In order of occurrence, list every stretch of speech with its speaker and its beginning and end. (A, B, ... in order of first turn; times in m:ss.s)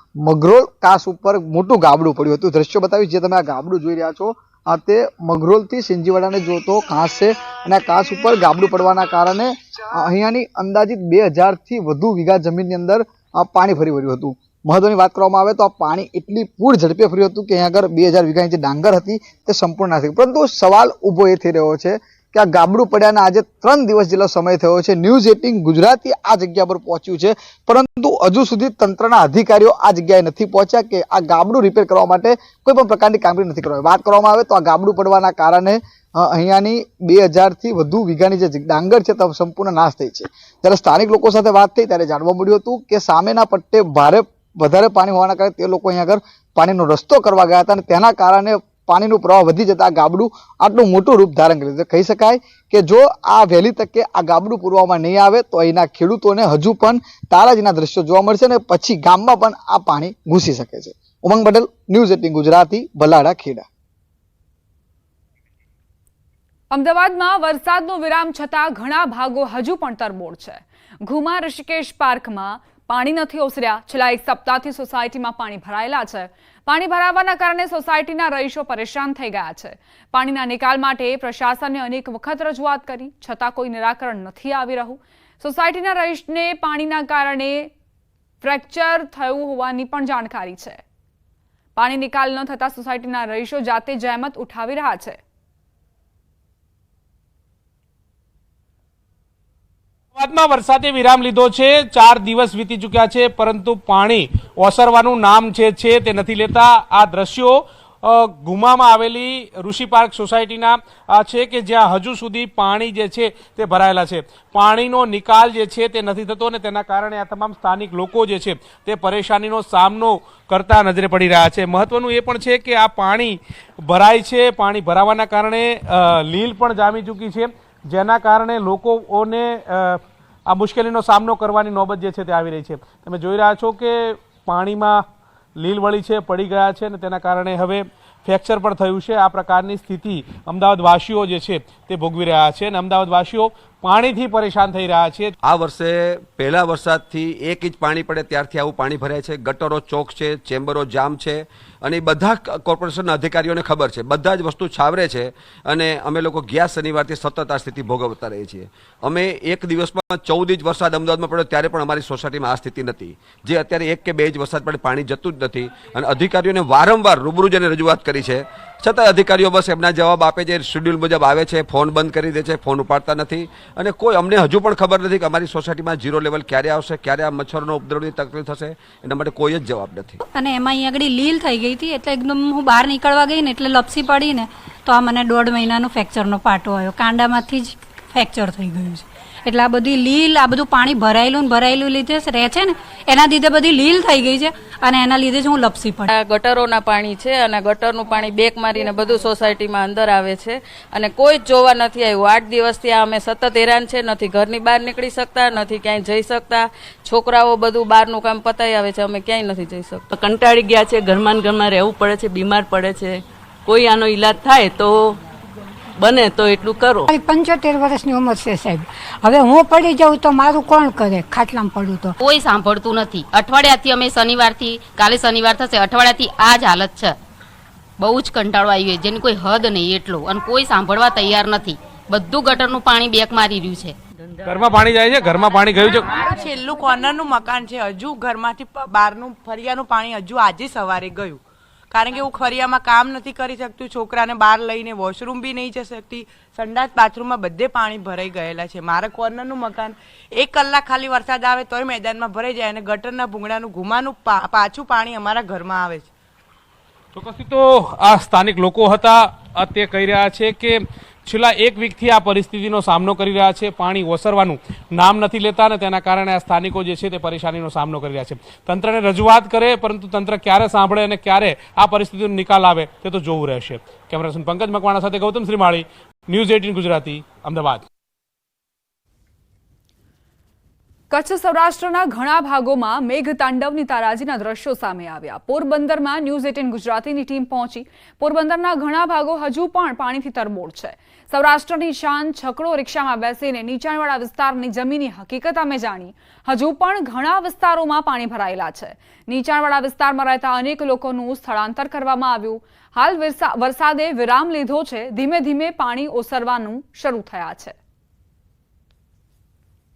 0:00.2-1:03.6 A
1:06.7-1:27.7 B
1:28.4-1:30.8 B
1:31.8-1:35.2 B
1:40.1-2:15.0 C
2:15.6-2:25.3 C
2:25.4-3:00.2 D
3:00.3-3:16.1 E
3:16.1-3:30.0 F
3:30.1-3:35.1 G
3:36.0-3:37.1 G
3:37.1-3:42.1 H
3:42.2-3:47.1 I
3:48.0-3:53.9 I
3:54.4-3:56.2 C
3:55.3-4:16.1 J
4:17.1-4:37.8 C
4:41.1-5:07.8 B